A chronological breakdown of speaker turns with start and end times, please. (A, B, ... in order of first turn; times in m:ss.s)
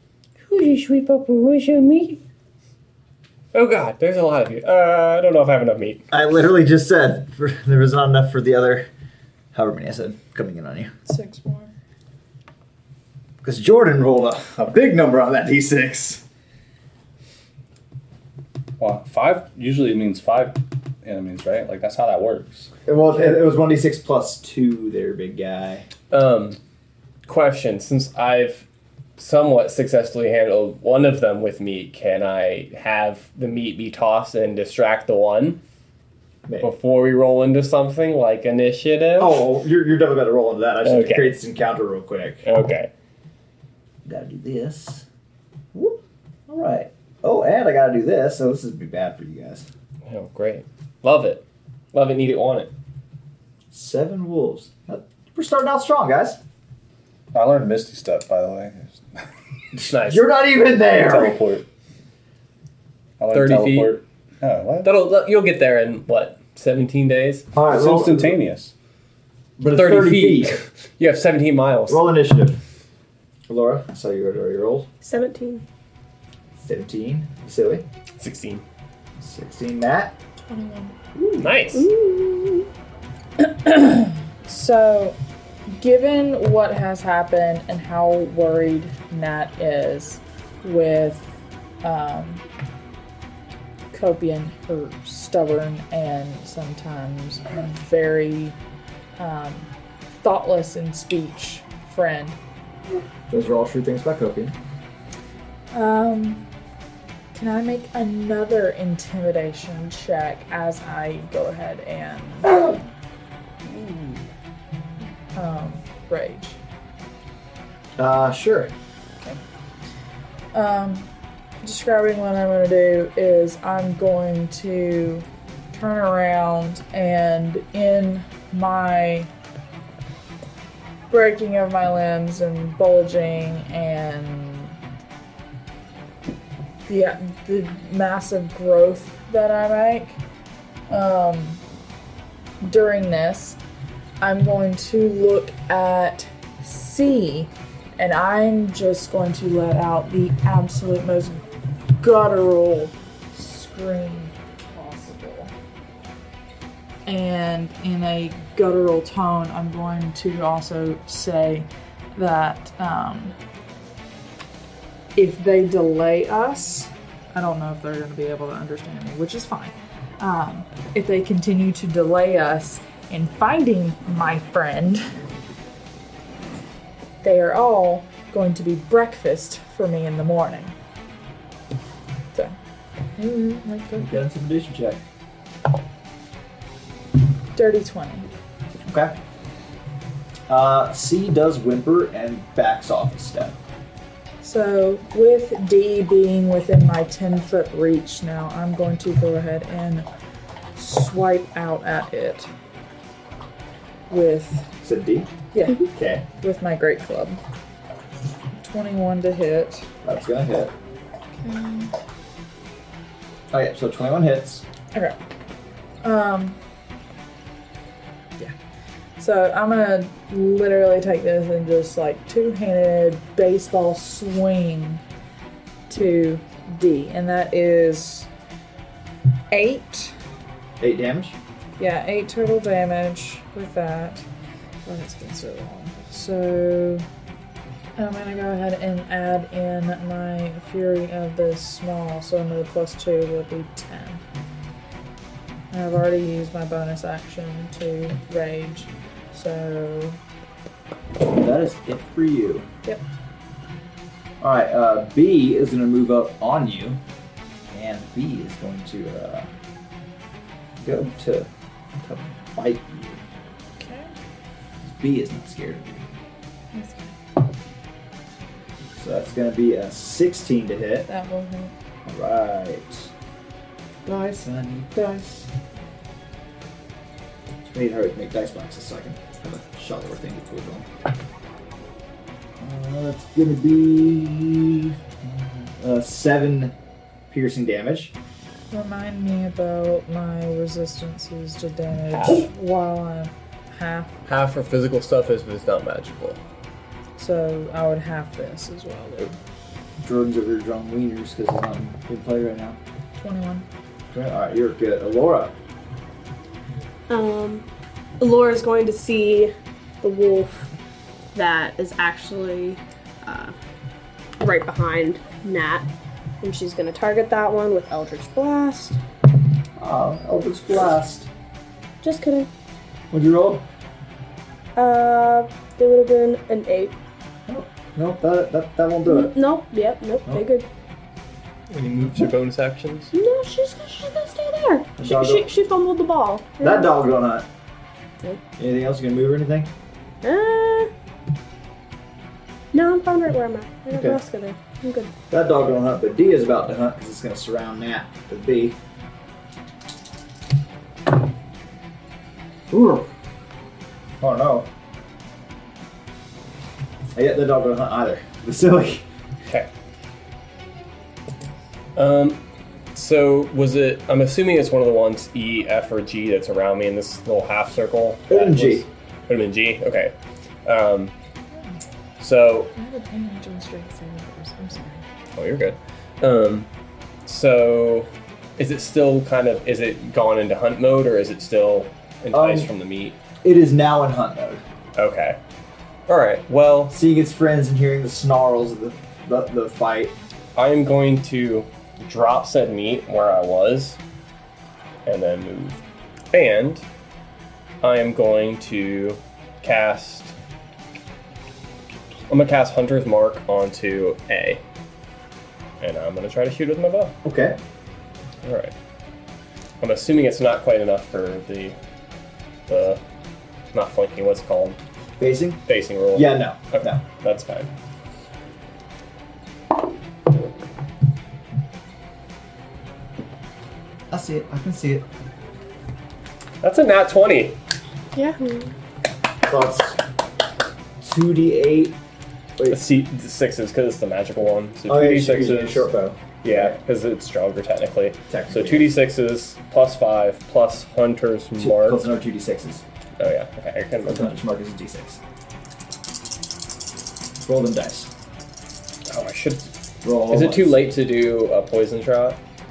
0:00.4-0:02.2 A
0:03.5-0:06.0 A
0:06.1-0:08.9 B
0:09.5-0:10.9 B
0:11.1-0:11.7 C
0:13.4-0:16.2 B
0:18.8-0:22.7 D
0:22.9-0:25.9 B
0:26.1-0:26.6 A
0:27.3-0:28.6 A
0:29.2-0:35.6 A
0:36.6-0:39.5 A
0:39.2-0:42.4 B
0:40.8-0:41.3 A
0:42.4-0:42.9 A
0:44.0-0:45.0 B
0:46.5-0:49.7 B
0:50.1-0:52.7 A
0:53.7-0:56.4 B
0:57.3-0:59.2 D
0:59.8-1:01.4 B
0:59.9-1:00.2 A
1:01.0-1:01.6 D
1:03.2-1:04.9 D
1:03.3-1:04.0 A
1:04.8-1:07.5 A
1:07.5-1:08.4 B
1:07.7-1:08.7 D
1:09.6-1:10.5 B
1:09.7-1:12.0 A
1:11.9-1:12.6 B
1:13.5-1:14.9 B
1:15.0-1:15.6 E
1:16.6-1:17.8 B
1:18.2-1:18.6 A
1:19.2-1:20.2 B
1:20.5-1:21.0 C
1:21.1-1:21.5 B
1:21.4-1:21.9 A
1:21.7-1:22.7 E
1:23.4-1:25.2 C
1:25.8-1:31.3 C
1:31.8-1:32.4 C
1:33.9-1:38.6 C
1:39.2-1:42.4 C
1:43.3-1:44.5 B
1:45.7-1:46.4 C
1:47.3-1:52.6 C
1:55.3-1:56.6 C
1:58.0-1:58.7 B
2:00.5-2:01.1 C
2:01.6-2:09.3 C
2:11.1-2:14.8 C
2:16.9-2:20.2 C
2:20.9-2:21.6 C
2:22.6-2:23.6 C
2:24.2-2:31.4 C
2:32.0-2:35.5 C
2:37.0-2:43.4 C
2:45.1-2:55.0 C
2:57.2-3:00.8 C
3:03.2-3:04.2 C
3:04.0-3:05.0 B
3:07.5-3:08.3 C
3:08.9-3:09.2 B
3:10.5-3:13.6 B
3:14.4-3:20.0 C
3:20.8-3:22.5 C
3:24.1-3:24.7 C
3:24.8-3:25.3 B
3:25.5-3:27.4 C
3:25.8-3:26.2 B
3:28.6-3:29.9 C
3:30.0-3:30.7 B
3:31.4-3:31.9 C
3:33.5-3:34.6 B
3:36.0-3:36.6 C
3:39.2-3:45.0 C
3:45.9-3:48.3 C
3:49.5-3:50.1 C
3:50.8-3:51.4 B
3:51.8-3:54.2 C
3:54.9-3:57.0 C
3:58.0-4:04.2 C
4:05.7-4:10.2 C
4:11.2-4:12.7 B
4:14.4-4:17.0 B
4:17.7-4:19.5 B
4:20.8-4:21.5 B
4:22.0-4:23.2 B
4:23.8-4:24.1 C
4:24.8-4:26.0 B
4:26.7-4:27.1 C
4:29.0-4:31.1 B
4:31.1-4:31.7 C
4:32.0-4:33.1 B
4:34.0-4:35.5 B
4:37.7-4:40.9 B
4:42.6-4:46.7 B
4:47.3-4:48.1 B
4:48.7-4:54.1 C
4:52.1-4:52.4 A
4:54.2-4:56.4 A
4:57.2-4:59.4 C
5:00.0-5:02.8 B
5:03.2-5:03.6 C
5:04.1-5:05.5 B
5:07.1-5:07.6 E
5:08.2-5:10.7 E
5:11.3-5:13.5 E
5:14.4-5:15.9 E
5:16.4-5:19.0 E
5:19.8-5:21.3 B
5:22.0-5:22.5 E
5:23.1-5:23.6 B
5:24.8-5:27.0 E
5:27.5-5:29.4 B
5:29.0-5:30.7 E
5:31.7-5:33.1 A
5:33.1-5:36.9 E
5:35.0-5:35.5 B
5:36.6-5:37.5 B
5:38.6-5:39.7 B
5:40.2-5:40.9 E
5:42.7-5:45.1 E
5:43.9-5:44.2 B
5:45.3-5:48.8 B
5:52.7-5:53.1 B
5:54.2-5:54.7 B
5:57.1-5:59.0 B
6:02.0-6:02.4 A
6:02.9-6:10.1 A
6:08.3-6:08.9 B
6:10.6-6:11.1 A
6:12.2-6:12.7 A
6:12.8-6:15.0 C
6:15.4-6:16.7 A
6:17.2-6:23.2 A
6:22.3-6:22.7 B
6:23.4-6:24.6 B
6:25.0-6:25.4 A
6:26.1-6:27.0 A
6:26.9-6:30.1 B
6:30.6-6:34.0 A
6:35.0-6:35.8 A
6:36.3-6:36.8 A
6:37.8-6:40.4 A
6:42.3-6:44.6 A
6:45.8-6:47.2 A
6:47.2-6:47.6 B
6:48.4-6:48.7 A
6:49.8-6:51.8 A
6:52.7-6:53.0 A
6:53.7-6:54.8 A
6:55.2-6:55.6 B
6:55.7-6:57.7 A
6:56.1-6:57.0 B
7:04.1-7:05.0 B
7:06.6-7:07.6 A
7:08.1-7:08.7 E
7:09.5-7:10.0 B
7:11.0-7:12.0 B
7:12.7-7:15.9 A
7:14.9-7:16.8 B
7:16.4-7:22.0 A
7:18.3-7:18.9 B
7:21.6-7:22.8 B
7:23.2-7:24.3 A
7:24.0-7:25.2 B
7:27.4-7:28.1 B
7:29.1-7:29.7 A
7:30.0-7:30.8 B
7:30.3-7:32.4 A